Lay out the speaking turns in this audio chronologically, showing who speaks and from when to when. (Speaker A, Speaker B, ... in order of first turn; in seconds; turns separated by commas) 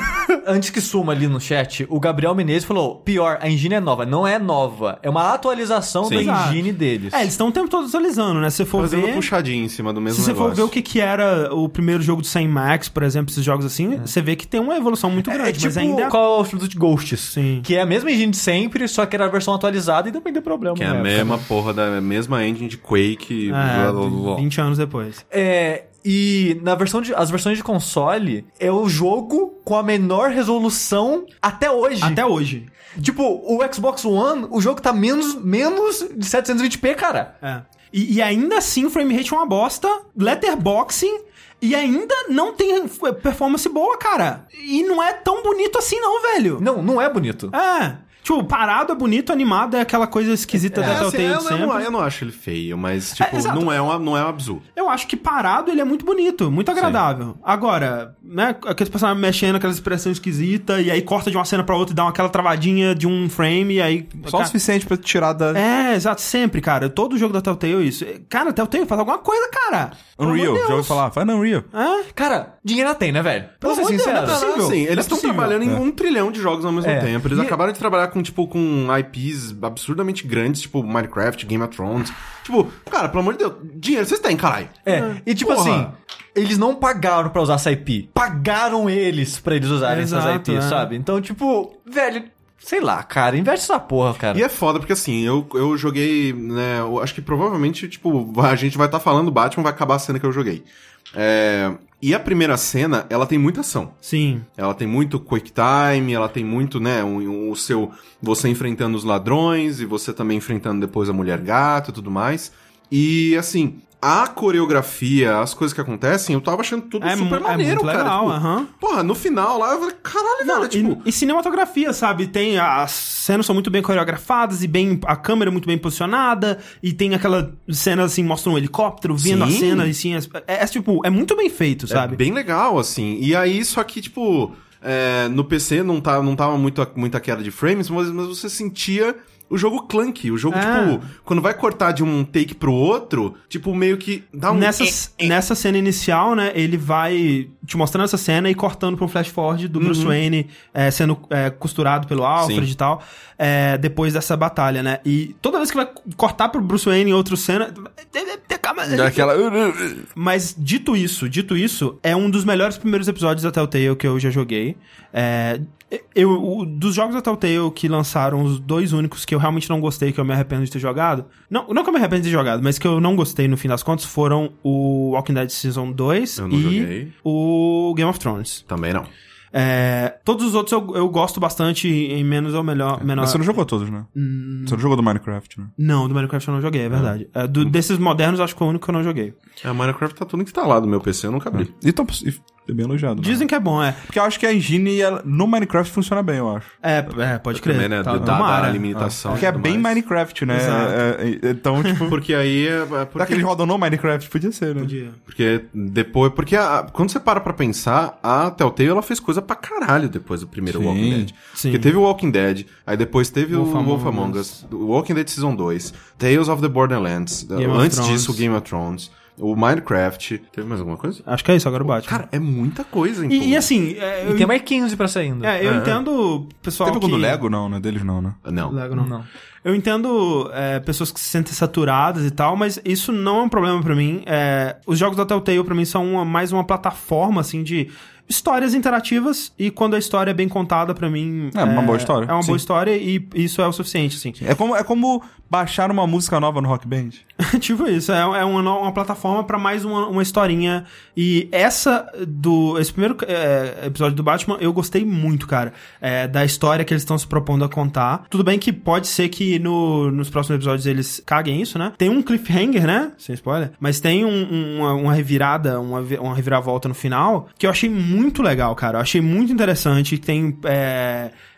Speaker A: 0.3-7.3, Speaker B: 6.0-6.3, Speaker C: 6.1-9.3, Speaker B: 8.7-10.7, Speaker C: 10.1-16.1, Speaker A: 15.2-21.4, Speaker C: 17.3-17.7, Speaker B: 20.8-24.4, Speaker C: 23.5-25.2, Speaker A: 25.3-32.2, Speaker C: 32.0-32.7, Speaker A: 33.0-37.3, Speaker C: 37.4-46.6, Speaker A: 46.6-47.5, Speaker C: 47.5-51.9, Speaker A: 50.7-51.1, Speaker B: 50.8-54.6, Speaker C: 53.1-53.8, Speaker C: 54.8-64.5, Speaker D: 64.2-65.6, Speaker C: 65.5-71.0, Speaker D: 70.2-71.7, Speaker C: 71.7-72.1, Speaker A: 72.1-74.4, Speaker C: 73.6-75.6, Speaker B: 74.1-85.9, Speaker A: 76.8-77.6, Speaker A: 84.8-94.4, Speaker C: 89.8-90.9, Speaker B: 94.3-104.0, Speaker C: 104.0-104.5, Speaker B: 104.6-121.0, Speaker C: 117.0-118.7, Speaker C: 120.4-132.2, Speaker B: 129.2-129.9, Speaker B: 131.9-145.3, Speaker C: 140.5-141.0, Speaker C: 144.5-159.3, Speaker B: 149.8-150.1, Speaker B: 152.4-152.7, Speaker D: 158.9-160.1, Speaker C: 160.2-178.6, Speaker B: 176.4-177.1, Speaker B: 178.7-179.1, Speaker C: 179.5-183.5, Speaker D: 183.0-184.1, Speaker C: 184.1-184.8, Speaker D: 184.7-185.7, Speaker C: 185.8-189.3, Speaker B: 186.9-187.7, Speaker B: 189.6-191.7, Speaker D: 191.5-193.4, Speaker C: 193.2-194.0, Speaker D: 194.1-196.7, Speaker C: 196.8-199.6, Speaker B: 197.5-200.0, Speaker D: 198.9-202.2, Speaker C: 200.5-201.0, Speaker B: 202.1-203.4, Speaker D: 203.2-204.9, Speaker C: 204.8-205.2, Speaker B: 205.3-221.2, Speaker D: 210.7-211.3, Speaker C: 211.5-211.9, Speaker C: 213.5-214.5, Speaker C: 217.6-218.4, Speaker C: 221.2-222.2, Speaker B: 221.8-223.7, Speaker C: 223.3-224.5, Speaker A: 224.2-225.5, Speaker C: 225.4-227.4, Speaker B: 225.6-226.0, Speaker D: 226.8-228.4, Speaker B: 228.4-228.8, Speaker C: 228.6-244.4, Speaker A: 228.9-229.3, Speaker D: 241.5-242.6, Speaker D: 244.4-247.2, Speaker C: 247.4-271.3